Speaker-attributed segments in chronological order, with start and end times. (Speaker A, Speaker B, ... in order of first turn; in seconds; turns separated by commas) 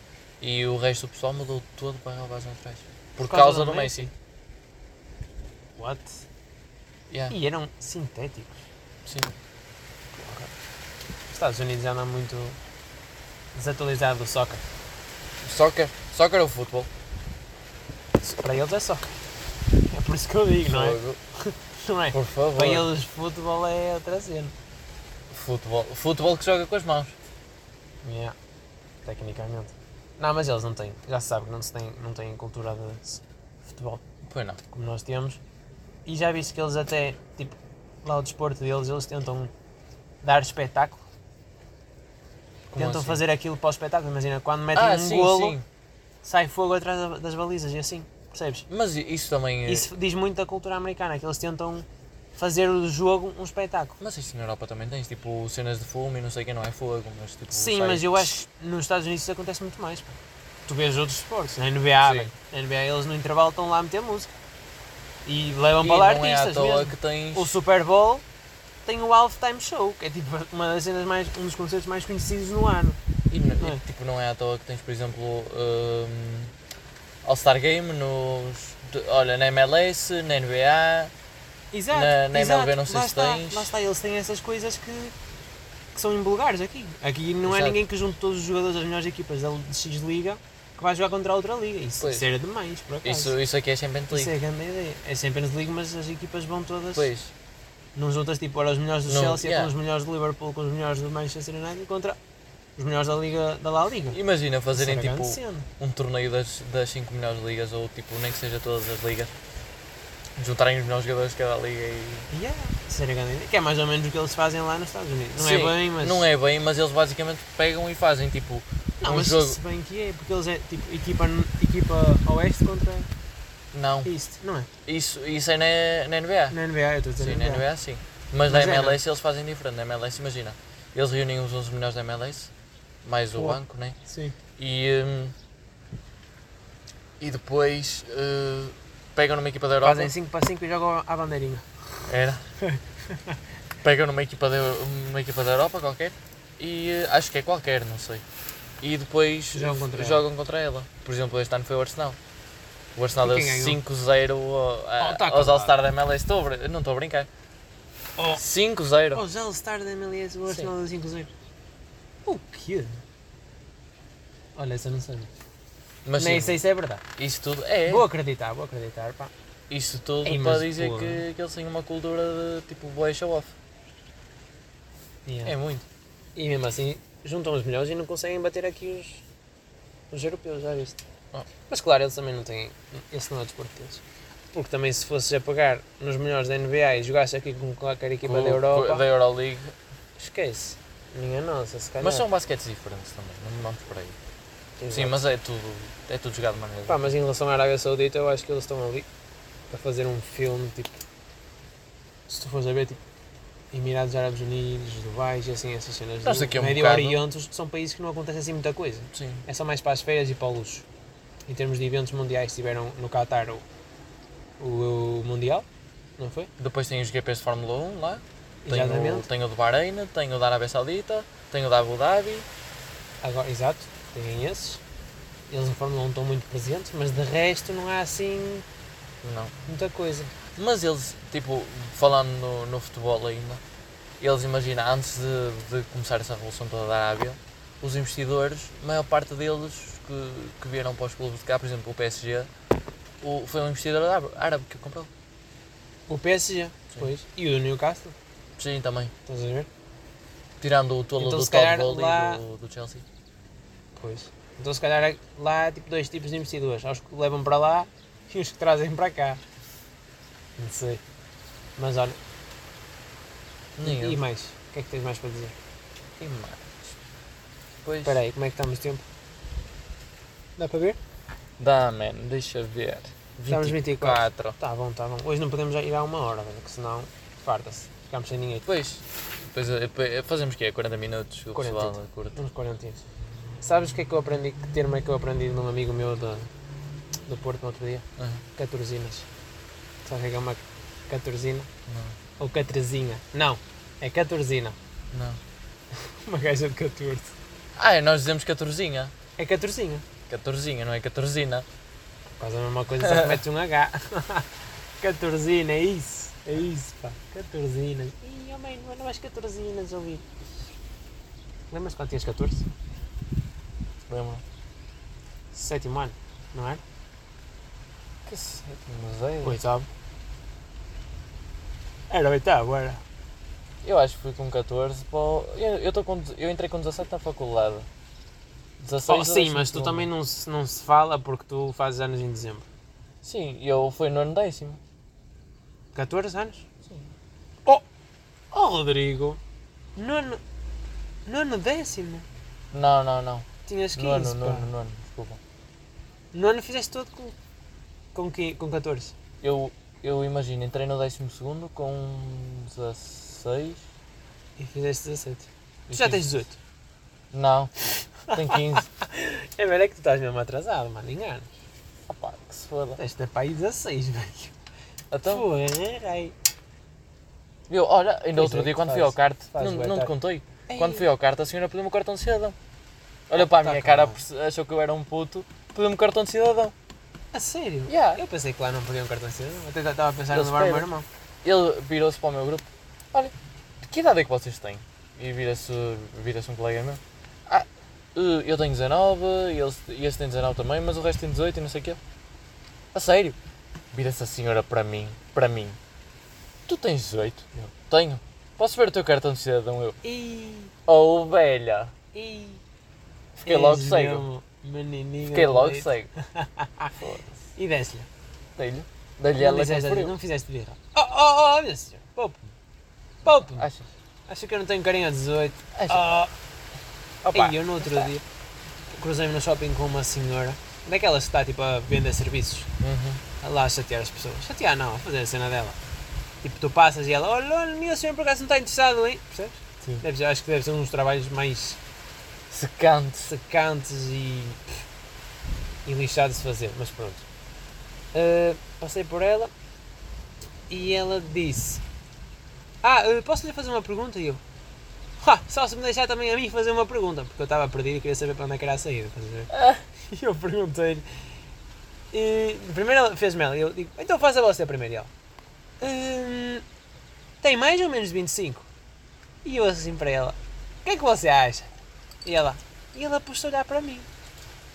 Speaker A: 0.4-4.1, Speaker B: 3.2-4.1, Speaker B: 5.8-6.2, Speaker A: 7.1-7.3, Speaker B: 7.3-8.7, Speaker A: 9.0-9.3, Speaker B: 10.1-10.5, Speaker B: 11.3-12.6, Speaker B: 13.5-14.6, Speaker A: 15.4-16.9, Speaker B: 18.2-19.2, Speaker B: 19.9-24.5, Speaker A: 20.6-21.2, Speaker A: 22.1-22.9, Speaker A: 25.3-27.1, Speaker B: 28.0-28.3, Speaker B: 29.0-34.0, Speaker A: 34.2-34.6, Speaker B: 34.7-35.4, Speaker B: 36.0-39.5, Speaker B: 40.2-41.0, Speaker A: 42.7-43.2, Speaker B: 42.8-45.6, Speaker A: 44.7-45.6, Speaker B: 46.2-48.6, Speaker A: 48.7-49.9, Speaker B: 49.6-54.0, Speaker A: 54.0-58.3, Speaker B: 57.5-64.3, Speaker A: 62.0-62.3, Speaker B: 65.2-68.2, Speaker A: 65.8-67.5, Speaker B: 68.8-73.0, Speaker A: 73.3-76.5, Speaker A: 77.2-81.1, Speaker B: 81.7-85.1, Speaker A: 81.9-83.7, Speaker B: 85.9-93.3, Speaker A: 87.4-87.8, Speaker A: 92.0-92.3, Speaker A: 93.0-94.3, Speaker B: 94.1-97.1, Speaker A: 96.9-97.3, Speaker B: 98.0-102.2, Speaker A: 99.1-99.7, Speaker B: 102.8-104.2, Speaker A: 104.1-109.3, Speaker B: 104.7-105.7, Speaker A: 110.4-112.3, Speaker B: 112.3-116.2, Speaker A: 115.4-119.6, Speaker B: 119.0-123.1, Speaker A: 123.7-124.1, Speaker B: 124.0-124.7, Speaker A: 124.8-126.6, Speaker B: 126.5-127.6, Speaker A: 127.2-132.5, Speaker B: 128.5-129.0, Speaker A: 133.0-134.0, Speaker B: 133.3-134.3, Speaker A: 134.6-135.3, Speaker A: 137.2-140.1, Speaker B: 139.8-141.7, Speaker A: 142.1-142.4, Speaker B: 142.6-143.4, Speaker A: 143.8-148.2, Speaker A: 148.8-152.2, Speaker B: 149.5-150.2, Speaker A: 152.9-157.3, Speaker B: 153.2-153.8, Speaker B: 155.0-155.8, Speaker B: 158.2-158.4, Speaker A: 158.3-159.2, Speaker B: 159.1-161.3, Speaker A: 160.5-160.7, Speaker B: 162.2-163.0, Speaker B: 164.6-165.3, Speaker A: 166.0-166.6, Speaker B: 166.2-167.0, Speaker A: 167.2-168.1, Speaker B: 167.8-169.3, Speaker A: 169.7-173.5, Speaker B: 170.2-171.2, Speaker B: 175.2-175.5, Speaker A: 175.4-175.8, Speaker B: 176.3-179.2, Speaker B: 180.1-181.0, Speaker B: 181.7-184.0, Speaker B: 184.5-189.1, Speaker A: 188.2-189.7, Speaker B: 190.2-192.2, Speaker A: 192.0-194.2, Speaker B: 194.8-195.2, Speaker A: 194.9-197.1, Speaker B: 196.9-199.1, Speaker B: 199.7-201.0, Speaker B: 202.3-203.0, Speaker B: 203.7-210.8, Speaker A: 206.2-207.2, Speaker A: 209.1-209.4, Speaker B: 211.5-213.6, Speaker B: 214.6-215.7, Speaker B: 216.2-216.5, Speaker A: 216.6-222.5, Speaker B: 218.6-219.3, Speaker B: 223.2-224.8, Speaker B: 225.5-228.7, Speaker A: 229.2-229.5, Speaker B: 229.7-230.3, Speaker A: 230.6-233.6, Speaker A: 234.2-242.5, Speaker A: 243.2-245.1, Speaker B: 246.1-248.1, Speaker A: 248.6-249.1, Speaker B: 249.2-249.7, Speaker A: 250.6-253.0, Speaker B: 251.2-252.4, Speaker B: 253.9-259.4, Speaker B: 260.6-261.0, Speaker B: 261.8-262.2, Speaker A: 263.8-264.2, Speaker B: 263.8-265.5, Speaker A: 266.2-266.9, Speaker A: 267.8-268.2, Speaker B: 268.0-269.0, Speaker B: 270.6-271.0, Speaker A: 271.6-274.6, Speaker B: 273.5-278.7, Speaker A: 278.6-282.4, Speaker B: 281.5-283.0, Speaker B: 283.6-286.5, Speaker B: 287.3-288.0, Speaker A: 288.2-288.4, Speaker B: 288.6-289.3, Speaker B: 290.0-291.7, Speaker A: 291.9-292.1, Speaker B: 292.4-294.8, Speaker A: 295.1-295.4, Speaker B: 296.0-297.3, Speaker A: 297.8-299.1, Speaker B: 299.4-300.0, Speaker A: 300.3-301.6, Speaker B: 302.4-310.2, Speaker A: 303.0-303.4, Speaker B: 311.7-312.7, Speaker A: 314.1-314.4, Speaker B: 315.5-316.8, Speaker A: 318.2-319.6, Speaker B: 319.4-319.9, Speaker B: 322.1-323.0, Speaker A: 323.8-327.9, Speaker A: 328.8-330.1, Speaker B: 329.1-332.7, Speaker A: 333.2-334.8, Speaker B: 335.9-336.8, Speaker B: 338.5-339.4, Speaker B: 339.9-340.4, Speaker B: 341.2-342.2, Speaker A: 342.7-345.4, Speaker B: 343.6-344.7, Speaker B: 346.3-347.4, Speaker B: 348.1-349.1, Speaker A: 349.4-353.8, Speaker B: 354.6-356.6, Speaker A: 355.9-356.2, Speaker A: 357.3-358.9, Speaker B: 358.2-361.5, Speaker A: 362.1-363.0, Speaker B: 363.0-364.5, Speaker A: 365.1-365.5, Speaker B: 365.2-366.3, Speaker A: 367.7-372.6, Speaker B: 368.3-370.1, Speaker B: 370.7-371.1, Speaker A: 373.3-376.7, Speaker B: 373.3-374.2, Speaker B: 377.3-381.1, Speaker A: 377.9-378.2, Speaker A: 380.3-380.9, Speaker A: 381.4-392.0, Speaker A: 392.9-393.4, Speaker A: 393.9-395.8, Speaker A: 396.7-400.0, Speaker B: 400.0-400.7, Speaker A: 400.9-401.9, Speaker B: 402.1-402.6, Speaker A: 403.4-404.2, Speaker B: 403.4-407.0, Speaker A: 405.3-406.1, Speaker A: 406.9-407.4, Speaker B: 407.5-408.1, Speaker A: 408.6-410.1, Speaker B: 409.3-412.4, Speaker B: 413.2-413.7, Speaker A: 413.4-413.9, Speaker B: 414.3-416.3, Speaker A: 415.7-416.0, Speaker B: 417.2-418.2, Speaker A: 417.3-418.1, Speaker B: 418.9-422.7, Speaker A: 422.8-423.2, Speaker B: 423.4-425.8, Speaker B: 426.4-431.8, Speaker A: 432.5-433.3, Speaker B: 433.3-434.8, Speaker B: 435.9-437.2, Speaker B: 438.1-439.5, Speaker B: 440.7-441.8, Speaker B: 442.8-444.4, Speaker B: 445.2-449.5, Speaker A: 449.5-449.8, Speaker B: 450.1-451.1, Speaker B: 452.1-455.1, Speaker B: 455.8-456.6, Speaker B: 457.4-458.7, Speaker B: 459.4-461.7, Speaker B: 462.2-464.1